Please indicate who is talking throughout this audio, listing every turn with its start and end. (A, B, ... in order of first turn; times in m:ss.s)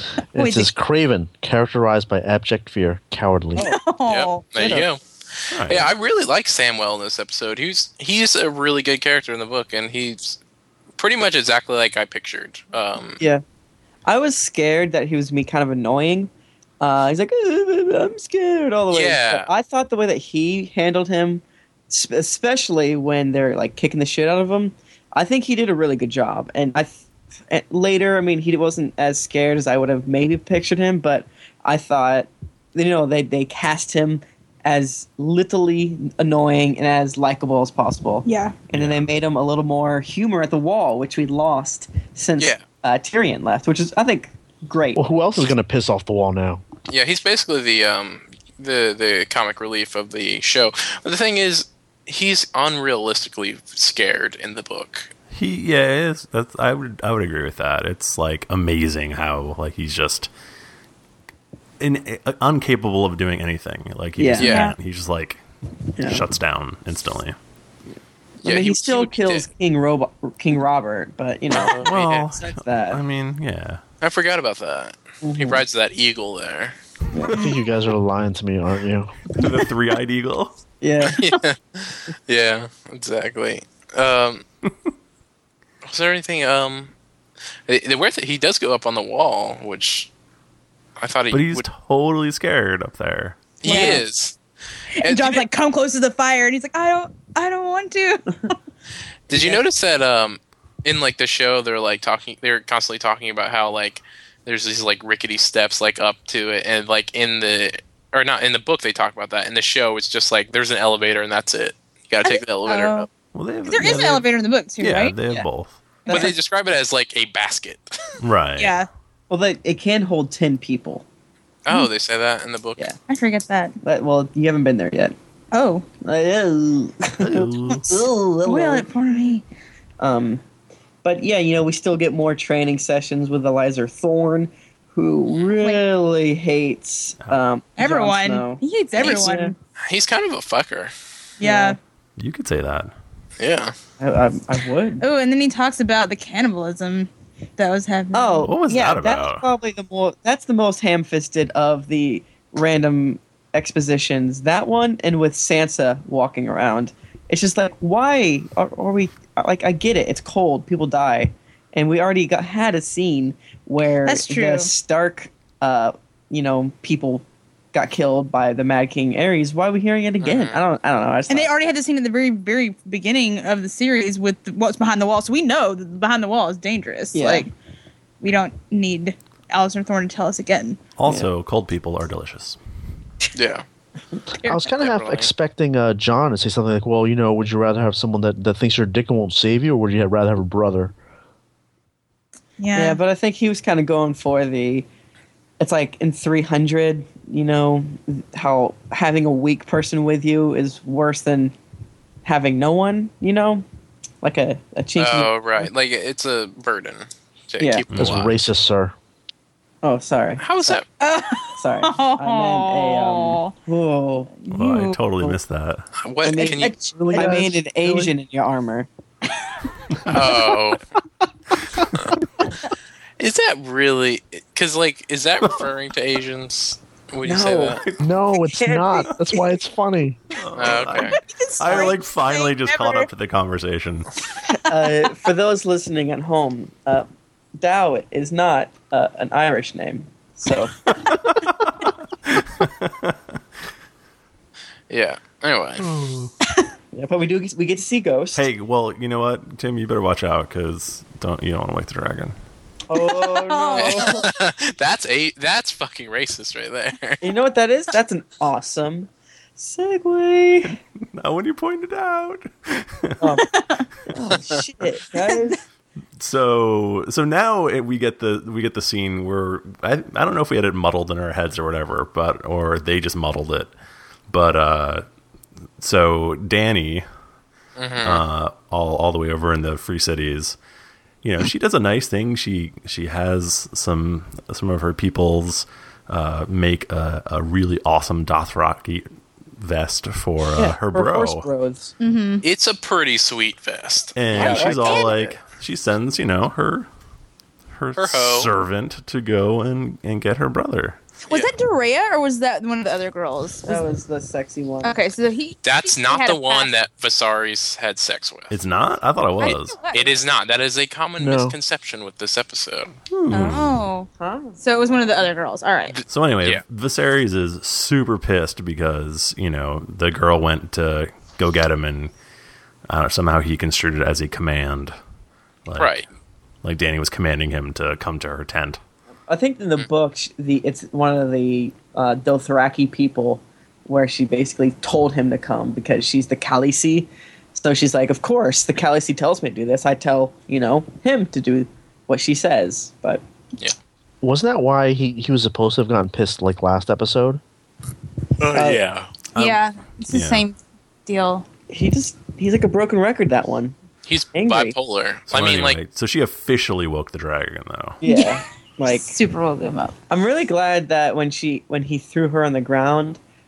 0:00.3-0:03.6 A
0:00.4-0:00.7 B
0:03.5-0:04.8 B
0:04.1-0:10.4 C
0:04.6-0:04.9 D
0:05.5-0:05.9 E
0:11.0-0:13.2 C
0:14.0-0:45.0 D
0:18.9-0:19.5 C
0:38.2-0:38.6 B
0:38.7-0:39.1 E
0:42.4-0:42.6 C
0:45.0-0:46.6 A
0:46.9-0:55.1 C
0:55.3-1:00.3 E
1:01.8-1:05.4 E
1:04.2-1:04.5 D
1:04.4-1:04.7 C
1:04.4-1:04.8 B
1:06.0-1:06.2 D
1:06.0-1:07.4 E
1:08.4-1:13.0 D
1:08.4-1:09.5 C
1:11.5-1:12.3 C
1:11.8-1:13.8 E
1:14.0-1:16.8 C
1:15.2-1:15.6 D
1:17.1-1:17.4 D
1:17.3-1:19.1 A
1:19.3-1:20.5 E
1:20.8-1:21.2 D
1:21.0-1:24.4 C
1:25.8-1:26.9 C
1:27.7-1:30.1 C
1:31.0-1:31.7 C
1:31.3-1:33.5 E
1:33.6-1:34.4 C
1:33.6-1:34.0 D
1:33.6-1:34.0 B
1:35.0-1:38.5 B
1:35.0-1:35.4 C
1:39.3-1:53.1 C
1:39.3-1:39.6 D
1:52.2-1:53.1 B
1:53.3-1:54.3 E
1:53.6-1:55.2 B
1:54.8-1:55.7 E
1:56.0-1:56.3 B
1:56.1-1:58.2 C
1:58.2-1:58.8 E
1:58.6-1:58.9 B
1:59.3-2:01.0 D
2:01.6-2:02.9 C
2:03.1-2:03.8 B
2:03.8-2:05.1 D
2:05.5-2:05.8 B
2:06.0-2:09.2 D
2:07.2-2:08.0 E
2:08.4-2:09.4 B
2:10.0-2:10.4 D
2:11.0-2:19.5 D
2:15.6-2:15.8 B
2:17.8-2:19.6 B
2:19.8-2:20.9 C
2:21.4-2:21.8 D
2:21.4-2:21.8 B
2:22.2-2:22.9 E
2:23.4-2:23.7 C
2:24.0-2:25.0 D
2:25.0-2:28.5 B
2:28.1-2:51.7 D
2:28.5-2:29.5 E
2:44.0-2:44.7 B
2:50.2-2:50.6 C
2:51.3-2:57.5 B
2:57.1-2:57.5 D
2:58.2-3:00.8 B
3:01.0-3:02.6 E
3:03.3-3:03.6 C
3:04.4-3:10.9 A
3:04.6-3:05.3 C
3:12.6-3:13.0 B
3:12.7-3:14.8 D
3:15.6-3:21.5 D
3:22.2-3:23.6 D
3:24.2-3:25.7 D
3:25.0-3:28.3 C
3:27.9-3:28.3 E
3:28.0-3:28.9 A
3:29.8-3:30.7 D
3:30.4-3:30.8 C
3:31.0-3:33.6 B
3:31.6-3:34.4 D
3:34.5-3:35.0 B
3:34.5-3:35.9 E
3:36.0-3:36.7 C
3:36.2-3:38.9 D
3:36.4-3:37.4 B
3:37.0-3:38.1 A
3:40.1-3:40.8 C
3:43.2-3:47.8 C
3:47.2-3:47.8 D
3:47.8-3:48.1 E
3:48.0-3:50.2 A
3:48.4-3:49.6 D
3:50.3-3:54.1 E
3:50.5-3:51.2 C
3:51.1-3:53.1 B
3:54.4-3:55.1 B
3:54.5-3:57.0 D
3:57.6-4:00.8 D
4:01.0-4:03.2 E
4:04.9-4:05.9 C
4:05.8-4:06.3 E
4:06.9-4:08.4 D
4:08.3-4:12.4 E
4:12.9-4:14.2 D
4:12.9-4:14.3 B
4:13.7-4:17.2 C
4:17.2-4:20.8 D
4:21.1-4:23.3 E
4:23.2-4:23.4 D
4:23.4-4:23.8 B
4:24.1-4:25.6 D
4:25.2-4:25.6 B
4:26.2-4:33.7 E
4:34.3-4:35.0 E
4:35.8-4:37.0 E
4:37.8-4:38.2 C
4:38.0-4:40.6 E
4:41.2-4:51.5 E
4:50.6-4:51.9 D
4:52.0-4:52.4 B
4:52.4-4:55.0 C
4:54.2-4:56.9 E
4:54.3-4:55.4 D
4:54.4-4:55.1 B
4:57.7-5:01.0 E
4:58.0-4:58.5 C
5:01.3-5:03.8 B
5:03.6-5:05.0 D
5:04.8-5:06.7 B
5:05.6-5:08.6 C
5:08.5-5:09.8 E
5:09.4-5:10.2 B
5:09.9-5:12.9 C
5:11.2-5:11.6 A
5:13.1-5:13.8 E
5:13.3-5:14.1 B
5:14.2-5:15.3 D
5:14.6-5:16.0 B
5:15.9-5:16.6 C
5:16.1-5:22.1 E
5:22.9-5:24.9 E
5:25.6-5:26.0 E
5:25.8-5:26.1 C
5:26.6-5:28.8 E
5:29.3-5:43.2 D
5:44.2-5:47.4 A
5:48.4-5:49.1 C
5:48.5-5:48.8 D
5:49.3-5:50.4 E
5:49.3-5:51.5 B
5:51.7-5:53.7 D
5:54.0-5:55.8 C
5:54.3-5:54.7 D
5:55.3-5:58.0 E
5:58.0-5:59.2 D
5:58.0-5:59.9 B
6:00.1-6:03.2 D